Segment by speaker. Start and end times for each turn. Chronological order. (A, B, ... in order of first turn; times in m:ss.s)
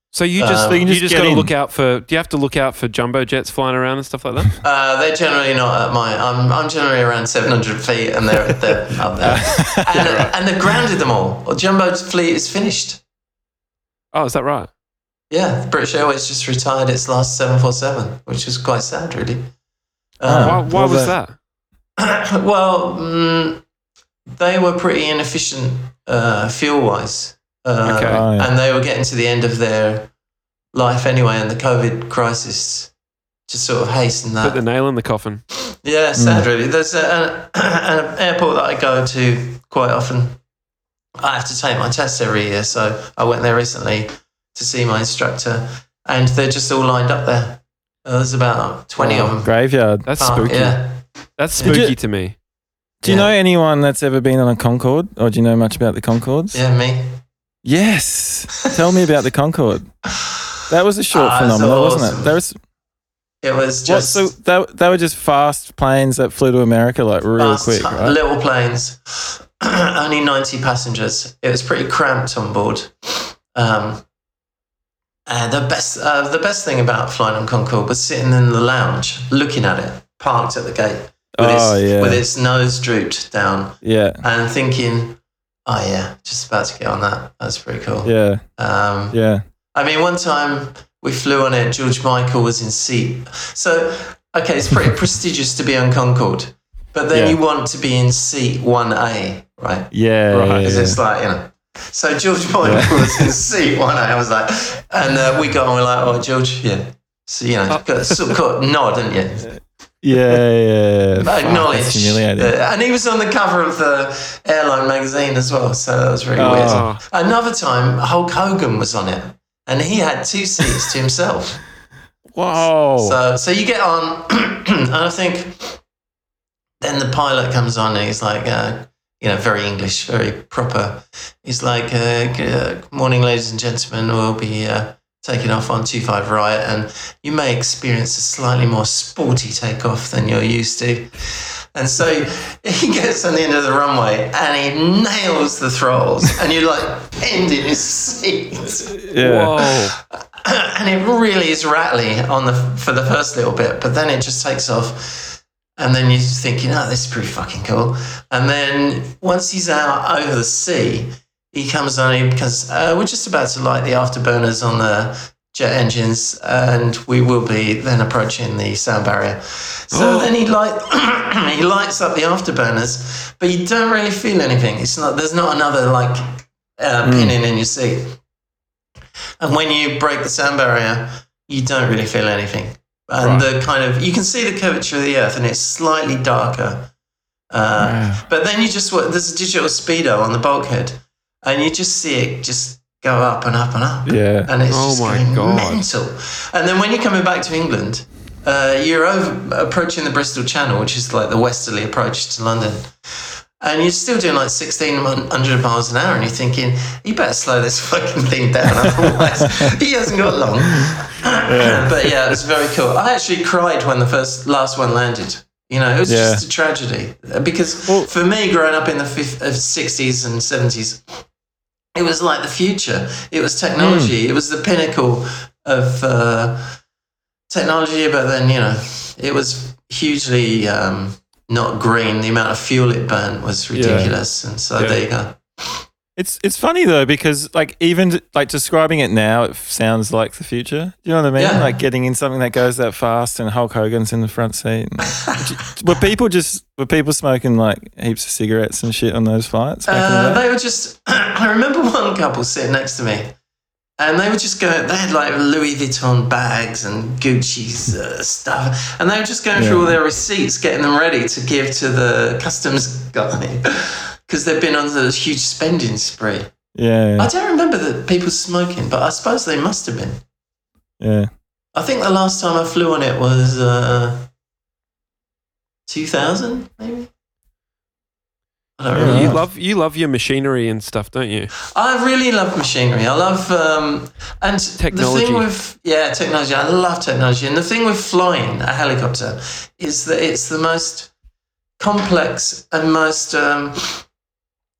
0:00.1-0:04.5 A
0:00.4-0:00.9 B
0:00.6-0:01.5 C
0:04.6-0:13.0 B
0:09.2-0:10.2 C
0:09.9-0:10.3 A
0:14.1-0:14.7 A
0:15.3-0:19.5 B
0:20.2-0:20.7 B
0:20.2-0:21.1 C
0:20.4-0:21.4 A
0:22.0-0:23.6 B
0:24.4-0:30.1 B
0:27.8-0:28.2 A
0:28.1-0:28.5 C
0:30.7-0:32.9 B
0:33.5-0:34.6 B
0:34.4-0:35.4 A
0:35.7-0:40.4 B
0:36.2-0:36.5 C
0:41.2-0:49.5 B
0:49.0-0:50.1 C
0:50.0-0:50.8 A
0:50.2-0:51.0 B
0:51.4-0:52.4 A
0:51.6-0:51.8 B
0:51.6-0:52.0 C
0:53.0-0:56.6 C
0:53.0-0:53.3 B
0:56.5-0:57.2 B
0:57.6-0:59.9 C
1:00.7-1:02.6 C
1:01.1-1:02.4 B
1:03.4-1:04.3 B
1:03.9-1:08.2 C
1:07.4-1:14.0 B
1:15.3-1:29.2 B
1:21.4-1:22.2 C
1:23.8-1:24.2 C
1:28.0-1:28.4 C
1:29.1-1:29.4 C
1:29.7-1:39.9 B
1:37.1-1:37.4 C
1:39.9-1:41.0 C
1:40.3-1:40.7 A
1:40.6-1:49.5 B
1:42.6-1:43.3 C
1:47.7-1:48.3 A
1:49.5-1:52.5 C
1:51.2-2:01.6 B
1:56.4-1:56.9 C
1:56.6-1:57.0 A
2:02.3-2:03.2 C
2:02.5-2:05.8 B
2:06.8-2:29.0 B
2:29.0-2:29.6 C
2:29.2-2:29.9 A
2:29.7-2:58.2 B
2:49.9-2:50.3 A
2:57.0-2:57.4 C
2:59.4-3:06.9 B
3:07.5-3:22.9 B
3:07.8-3:08.2 C
3:14.0-3:14.5 C
3:14.7-3:15.8 A
3:23.6-3:41.1 B
3:29.4-3:29.7 C
3:30.8-3:32.4 C
3:36.1-3:36.4 C
3:37.9-3:38.1 C
3:42.0-3:46.8 B
3:43.8-3:44.1 C
3:47.5-3:55.8 B
3:53.7-3:54.1 A
3:53.8-3:54.1 C
3:56.2-4:10.4 C
4:01.4-4:01.7 B
4:05.1-4:05.4 B
4:09.9-4:13.3 B
4:14.0-4:26.5 B
4:19.5-4:20.0 C
4:26.8-4:27.3 C
4:27.2-4:30.2 B
4:31.0-4:31.3 C
4:31.7-4:34.3 B
4:35.9-4:37.1 B
4:38.8-4:39.4 B
4:38.9-4:39.4 C
4:39.0-4:41.5 A
4:41.7-4:51.1 B
4:44.8-4:45.5 A
4:51.8-4:54.0 B